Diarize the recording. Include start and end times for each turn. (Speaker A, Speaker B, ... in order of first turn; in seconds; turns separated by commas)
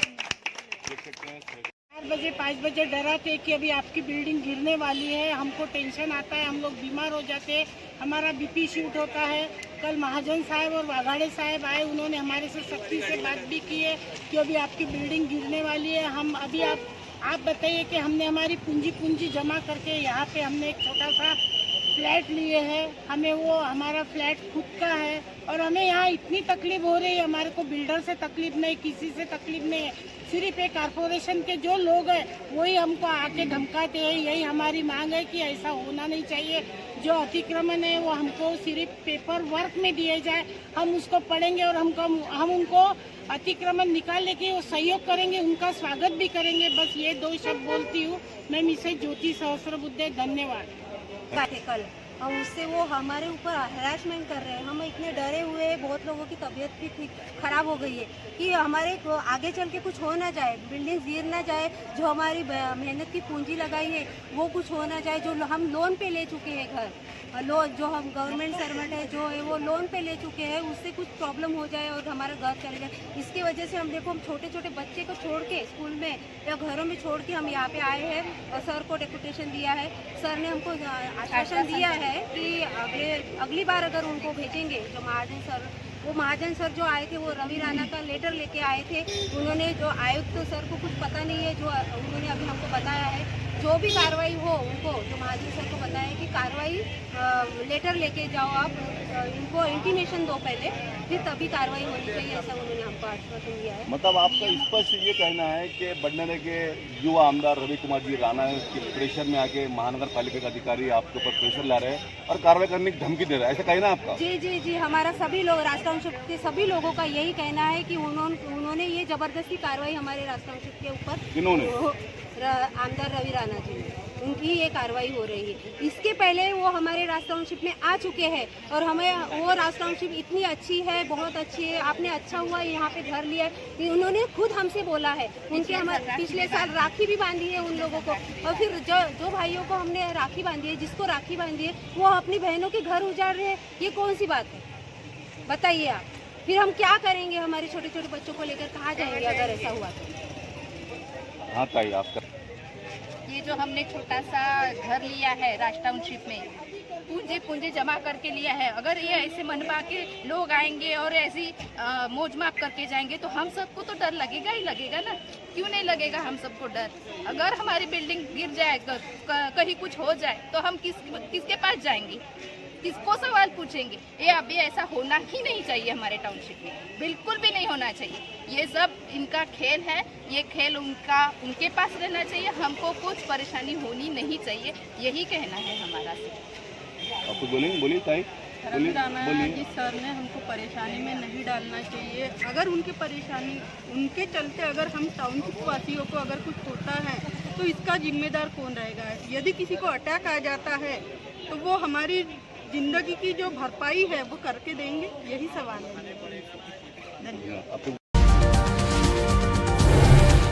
Speaker A: 0.8-1.7, Speaker B: 1.9-21.4, Speaker B: 21.9-50.7, Speaker C: 51.3-104.9, Speaker D: 81.3-82.1, Speaker A: 103.9-114.2, Speaker C: 114.1-144.6, Speaker A: 121.3-121.7, Speaker D: 135.5-137.0, Speaker D: 137.5-138.7, Speaker C: 145.4-150.1, Speaker A: 151.5-152.2, Speaker D: 153.3-156.5, Speaker D: 157.1-172.2, Speaker D: 172.8-186.4, Speaker A: 187.3-189.7, Speaker E: 188.8-206.4, Speaker A: 207.4-208.0